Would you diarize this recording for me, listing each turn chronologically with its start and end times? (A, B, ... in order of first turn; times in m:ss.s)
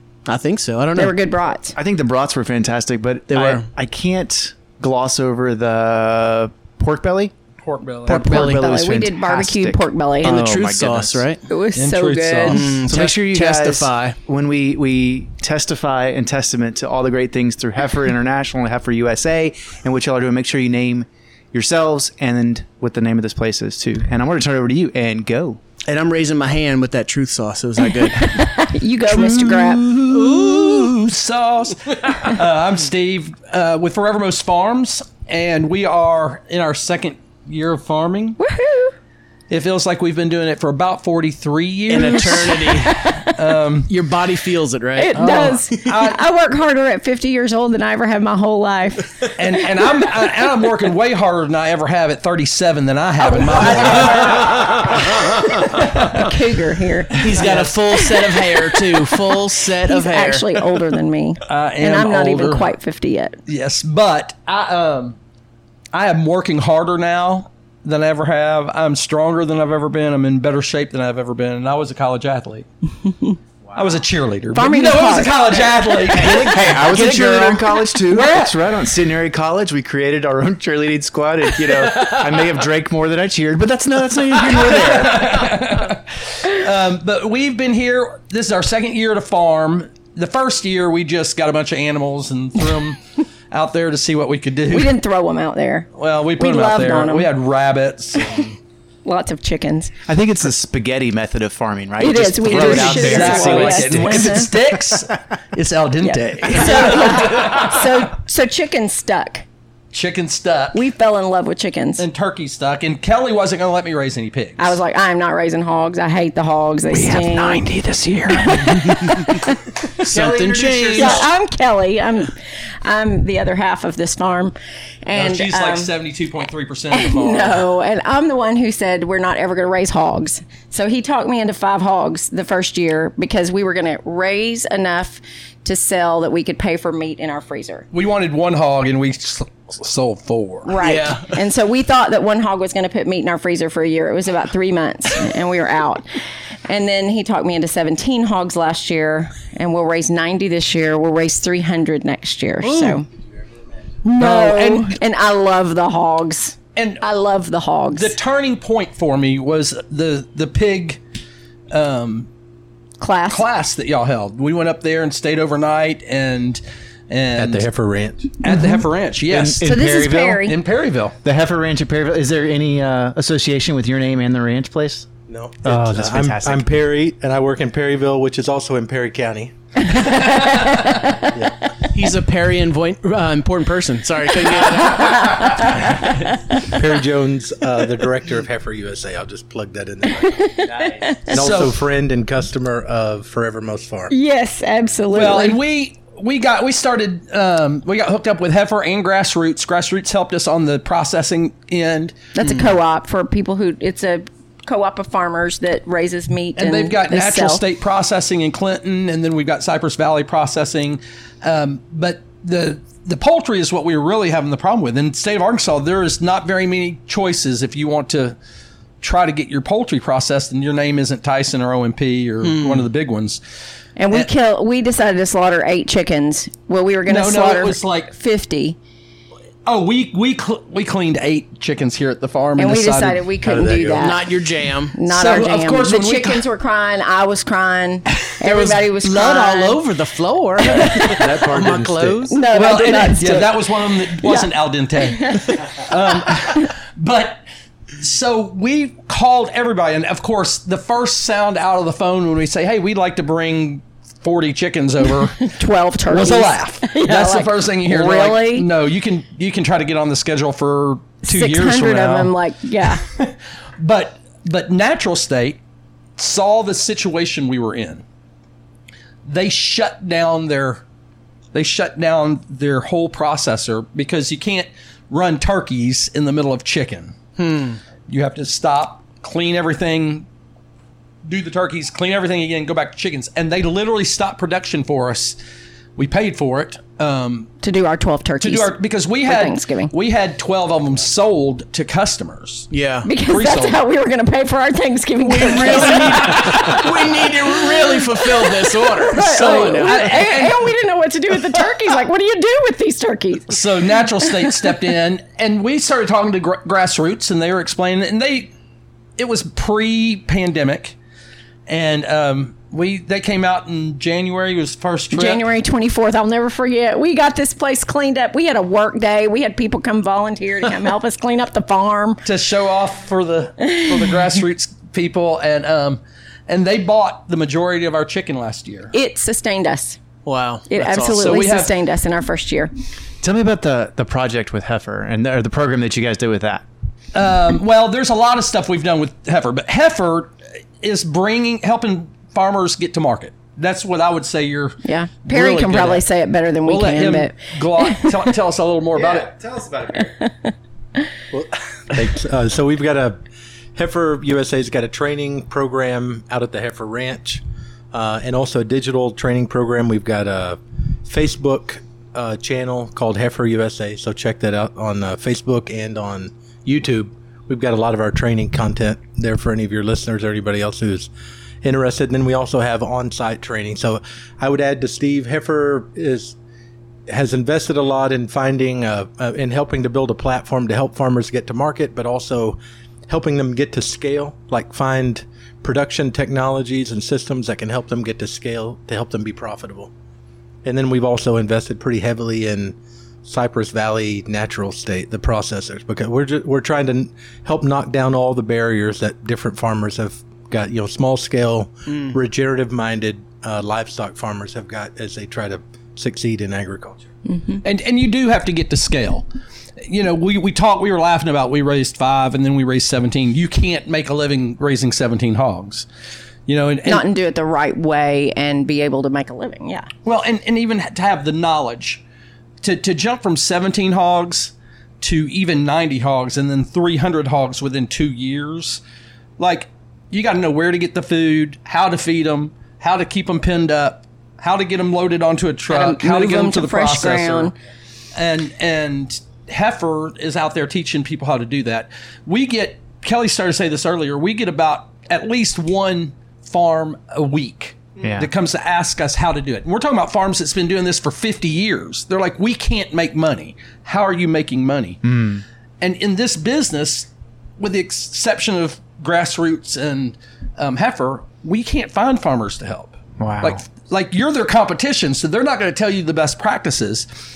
0:00.2-0:01.2 A
0:01.0-0:01.8 B
0:01.8-0:07.3 C
0:03.3-0:03.7 A
0:07.6-0:08.2 D
0:08.0-0:11.2 C
0:08.1-0:08.7 A
0:08.3-0:10.4 B
0:10.2-0:11.4 A
0:11.5-0:12.8 B
0:11.8-0:12.8 D
0:12.5-0:14.2 A
0:12.9-0:25.6 C
0:25.9-0:28.4 A
0:28.1-0:29.9 B
0:29.9-0:38.4 D
0:30.3-0:30.8 A
0:38.4-0:38.9 B
0:39.5-0:44.0 D
0:41.9-0:43.1 A
0:42.1-0:43.3 B
0:43.9-0:45.7 A
0:44.9-0:49.3 B
0:45.2-0:46.2 D
0:49.4-0:54.4 D
0:53.3-0:59.0 B
0:57.2-1:00.5 A
0:57.2-0:57.8 D
0:59.8-1:03.4 B
1:01.4-1:02.7 D
1:03.5-1:05.2 D
1:05.9-1:12.7 D
1:13.7-1:17.6 D
1:14.5-1:16.0 B
1:16.1-1:25.4 C
1:24.5-1:33.0 D
1:33.5-1:35.0 D
1:34.7-1:37.3 B
1:36.0-1:38.5 D
1:39.0-1:39.9 B
1:40.1-1:44.6 C
1:42.0-1:44.5 B
1:42.4-1:47.6 D
1:46.0-1:49.4 B
1:49.9-1:50.8 D
1:50.7-1:52.0 B
1:52.0-1:54.8 D
1:54.6-1:57.6 B
1:56.9-1:59.4 A
1:58.3-1:59.6 B
2:00.0-2:01.3 A
2:00.1-2:01.2 C
2:01.0-2:05.9 B
2:05.1-2:07.6 D
2:06.9-2:17.9 B
2:17.9-2:21.0 D
2:20.6-2:26.0 B
2:20.8-2:21.2 A
2:26.7-2:33.1 B
2:32.6-2:33.0 D
2:34.0-2:38.1 B
2:34.2-2:35.0 D
2:36.8-2:37.1 D
2:37.9-2:41.0 D
2:41.7-2:42.3 D
2:43.0-2:43.4 B
2:43.3-2:47.7 D
2:47.4-2:48.3 E
2:48.4-2:49.7 D
2:48.5-2:48.8 B
2:49.3-2:50.5 C
2:49.6-2:50.6 B
2:50.4-2:51.2 D
2:51.2-2:55.1 C
2:55.3-2:59.5 E
2:55.6-2:56.7 C
3:00.0-3:01.3 B
3:01.3-3:01.7 E
3:01.9-3:05.4 A
3:04.8-3:06.7 B
3:06.7-3:10.5 E
3:10.2-3:11.6 B
3:11.3-3:11.7 D
3:11.3-3:14.1 E
3:14.1-3:15.6 B
3:15.1-3:22.2 D
3:22.3-3:27.6 B
3:26.6-3:38.4 D
3:39.0-3:43.4 D
3:42.4-3:42.9 A
3:44.0-3:48.8 B
3:47.1-3:48.1 D
3:49.7-3:53.3 D
3:52.6-3:54.2 B
3:53.4-3:54.1 E
3:54.0-3:55.0 A
3:55.0-3:59.8 B
3:55.1-3:56.5 D
3:58.4-4:02.4 A
4:00.6-4:01.4 B
4:01.1-4:02.3 E
4:02.3-4:03.6 B
4:02.5-4:07.4 D
4:04.2-4:04.5 B
4:05.1-4:05.6 B
4:08.0-4:15.5 D
4:15.4-4:18.7 B
4:16.1-4:22.3 D
4:21.2-4:23.0 B
4:23.0-4:25.6 D
4:26.2-4:28.0 D
4:29.2-4:30.8 D
4:31.5-4:37.2 D
4:37.4-4:37.8 A
4:38.1-4:40.2 D
4:41.2-4:45.4 D
4:46.0-4:47.5 D
4:47.6-4:48.7 B
4:48.4-4:52.7 D
4:49.2-4:49.9 B
4:52.7-4:53.1 A
4:53.0-4:56.8 B
4:53.2-4:53.8 D
4:55.2-5:00.2 A
4:55.5-4:56.9 D
4:58.1-5:03.6 B
4:59.4-5:00.6 D
5:03.5-5:08.5 D
5:09.2-5:10.9 D
5:11.7-5:15.4 D
5:15.1-5:22.2 B
5:22.2-5:28.9 D
5:28.9-5:30.0 B
5:30.2-5:31.3 A
5:30.7-5:32.7 B
5:31.1-5:31.7 D
5:33.2-5:36.6 C
5:37.1-5:46.0 D
5:44.8-5:48.3 B
5:46.6-5:49.3 D
5:48.9-5:50.1 C
5:50.1-5:50.5 B
5:51.3-5:53.2 E
5:53.8-6:11.1 E
6:11.6-6:16.4 E
6:17.1-6:29.9 E
6:30.6-6:47.0 E
6:47.3-6:47.6 B
6:47.6-6:49.3 D
6:49.8-6:55.8 D
6:56.5-6:57.0 D
6:56.8-6:59.9 B
7:00.0-7:02.0 D
7:02.6-7:08.8 D
7:09.4-7:17.5 D
7:15.7-7:17.5 B
7:18.1-7:35.0 D
7:35.0-7:35.4 C
7:35.8-7:47.1 D
7:43.2-7:43.6 C